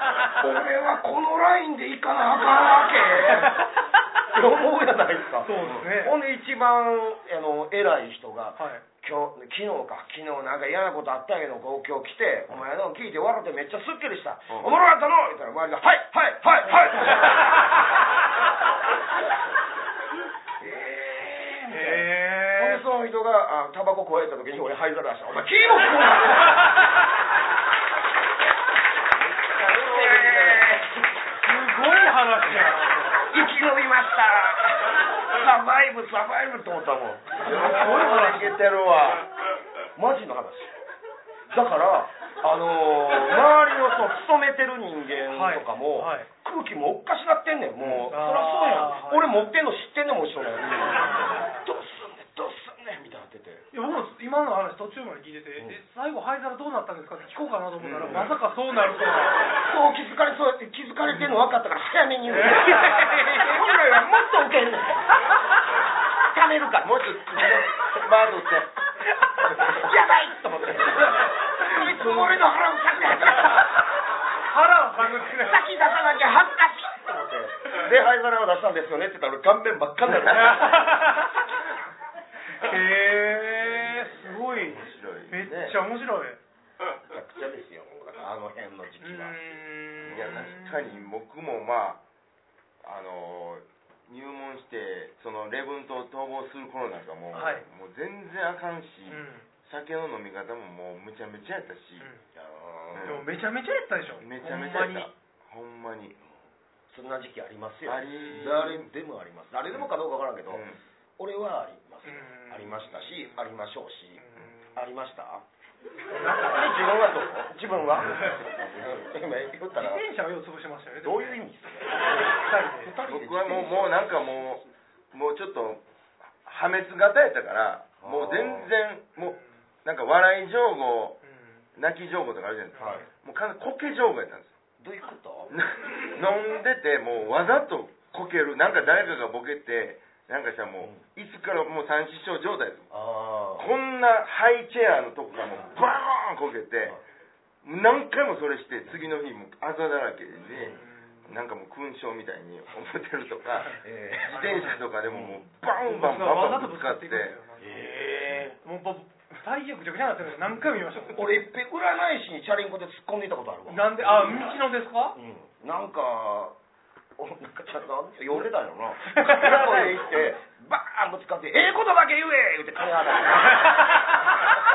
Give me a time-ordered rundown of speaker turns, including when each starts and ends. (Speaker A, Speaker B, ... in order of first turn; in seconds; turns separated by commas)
Speaker A: 0.2-3.7, Speaker B: 3.2-3.7, Speaker A: 4.2-17.5, Speaker B: 5.4-6.2, Speaker B: 8.6-8.8, Speaker C: 14.5-14.8, Speaker A: 20.6-26.7, Speaker B: 21.7-22.9, Speaker A: 29.4-31.1, Speaker C: 30.0-30.7, Speaker B: 31.4-33.3, Speaker A: 33.3-38.0, Speaker B: 37.4-38.6, Speaker C: 37.4-39.3, Speaker A: 40.0-40.7, Speaker A: 41.5-53.7, Speaker B: 45.3-46.3, Speaker C: 47.8-48.1, Speaker B: 48.1-49.5, Speaker B: 50.7-51.6, Speaker B: 53.7-59.5, Speaker C: 57.8-58.4, Speaker A: 58.0-58.3, Speaker A: 59.6-65.2, Speaker C: 61.1-61.3, Speaker B: 62.4-63.7, Speaker A: 66.2-68.0, Speaker C: 66.8-68.7, Speaker A: 69.3-73.8, Speaker C: 69.5-69.9, Speaker C: 71.6-72.4, Speaker B: 74.4-75.7, Speaker A: 75.1-81.1, Speaker B: 80.3-81.4, Speaker B: 82.6-86.4, Speaker C: 84.4-85.8, Speaker A: 87.1-90.5, Speaker B: 89.0-91.0, Speaker C: 90.1-92.0, Speaker C: 92.8-102.1, Speaker B: 97.3-97.7, Speaker B: 99.1-99.5, Speaker A: 102.3-103.2, Speaker C: 102.9-103.3, Speaker B: 103.0-105.1, Speaker C: 104.2-106.2, Speaker A: 106.9-110.7, Speaker C: 107.8-108.9, Speaker C: 110.5-110.8, Speaker A: 111.2-114.2, Speaker B: 112.1-113.5, Speaker B: 114.2-114.8, Speaker A: 114.7-115.4, Speaker B: 116.1-116.8, Speaker A: 116.3-120.0, Speaker B: 118.1-118.4, Speaker B: 119.8-121.4, Speaker A: 121.0-123.9, Speaker B: 122.2-123.0, Speaker C: 123.0-125.8, Speaker C: 126.4-131.2, Speaker A: 128.0-128.7, Speaker B: 129.2-129.5, Speaker B: 131.2-131.7, Speaker C: 131.8-134.6, Speaker B: 132.8-133.1, Speaker A: 132.8-133.1, Speaker A: 134.8-135.6, Speaker C: 135.5-142.9, Speaker A: 142.9-143.7, Speaker C: 143.6-146.9, Speaker C: 147.6-157.4, Speaker A: 150.5-150.8, Speaker B: 150.7-151.3, Speaker A: 153.8-155.4, Speaker B: 154.3-154.8, Speaker B: 155.8-161.4, Speaker A: 157.6-158.6, Speaker A: 161.1-164.5, Speaker B: 163.7-165.2, Speaker A: 165.2-166.6, Speaker A: 167.2-174.0, Speaker B: 169.1-169.9, Speaker C: 169.2-170.3